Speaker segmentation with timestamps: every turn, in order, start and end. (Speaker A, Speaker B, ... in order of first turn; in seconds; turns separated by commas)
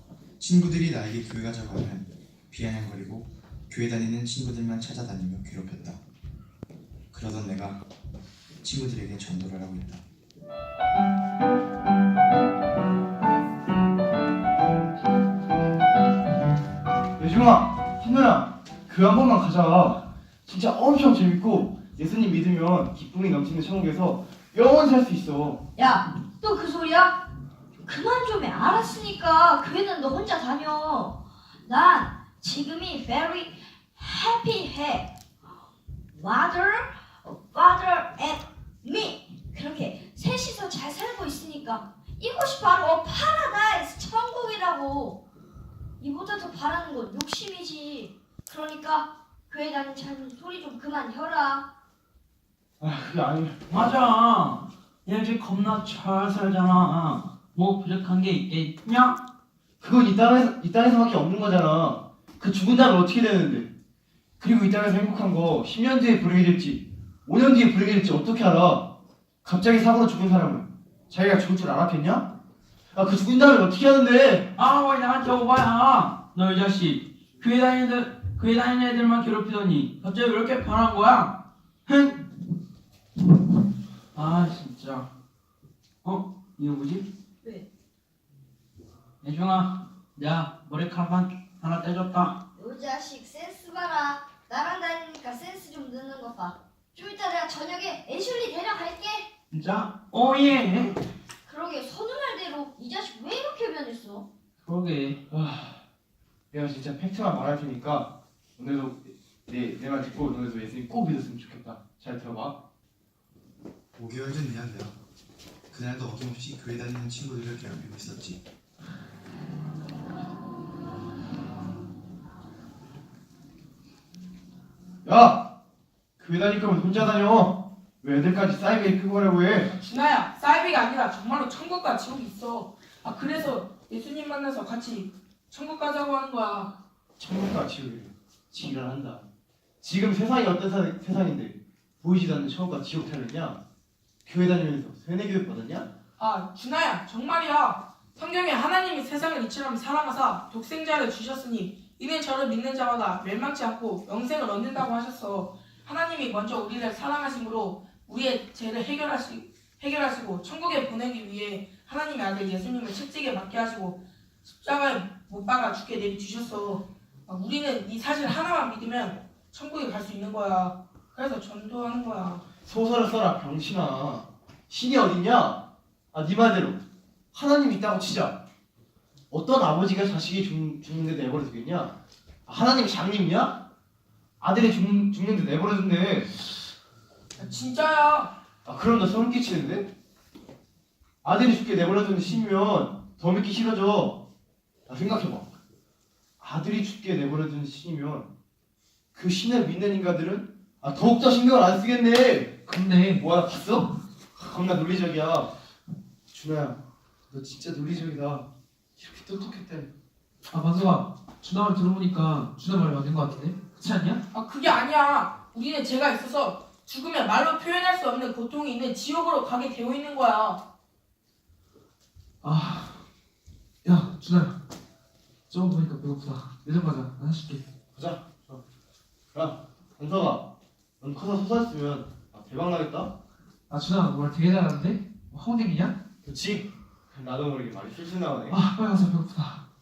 Speaker A: 0.4-6.0, Speaker A: 7.1-7.8, Speaker A: 8.6-10.0, Speaker B: 17.2-25.6, Speaker C: 25.8-27.1, Speaker C: 27.9-35.1, Speaker C: 36.1-45.2, Speaker C: 46.0-51.6, Speaker B: 52.8-53.6, Speaker D: 53.7-59.2, Speaker B: 59.8-63.7, Speaker B: 64.4-68.9, Speaker B: 69.4-72.3, Speaker B: 72.9-74.5, Speaker D: 74.6-81.3, Speaker D: 81.9-82.2, Speaker D: 84.1-85.1, Speaker D: 86.0-87.1, Speaker D: 89.2-92.4, Speaker C: 92.6-99.3, Speaker D: 99.5-101.0, Speaker C: 101.5-104.2, Speaker D: 104.6-105.2, Speaker B: 105.3-105.8, Speaker B: 106.5-112.6, Speaker A: 114.0-115.0, Speaker A: 115.7-118.4, Speaker B: 125.0-125.4, Speaker B: 126.2-129.7, Speaker E: 129.7-136.7, Speaker B: 137.2-139.2, Speaker B: 139.8-143.6, Speaker B: 144.2-145.9, Speaker E: 146.2-172.4, Speaker B: 172.6-175.6, Speaker B: 176.1-176.8, Speaker B: 177.3-178.4, Speaker B: 179.3-181.9, Speaker B: 182.5-183.6, Speaker B: 184.4-186.3, Speaker E: 187.4-188.3, Speaker B: 188.7-189.9, Speaker B: 191.2-194.2, Speaker B: 194.9-195.5, Speaker B: 196.4-198.3, Speaker B: 199.1-202.6, Speaker F: 202.7-203.2, Speaker B: 203.2-205.5, Speaker B: 206.3-206.8, Speaker B: 207.3-208.5, Speaker B: 209.0-209.9, Speaker F: 210.5-214.2, Speaker E: 214.3-220.6, Speaker F: 222.4-223.0, Speaker F: 223.8-224.6, Speaker F: 225.5-227.6, Speaker B: 227.9-228.6, Speaker B: 229.3-230.4, Speaker B: 231.0-233.1, Speaker F: 233.7-235.9, Speaker B: 236.2-238.7, Speaker F: 238.5-239.6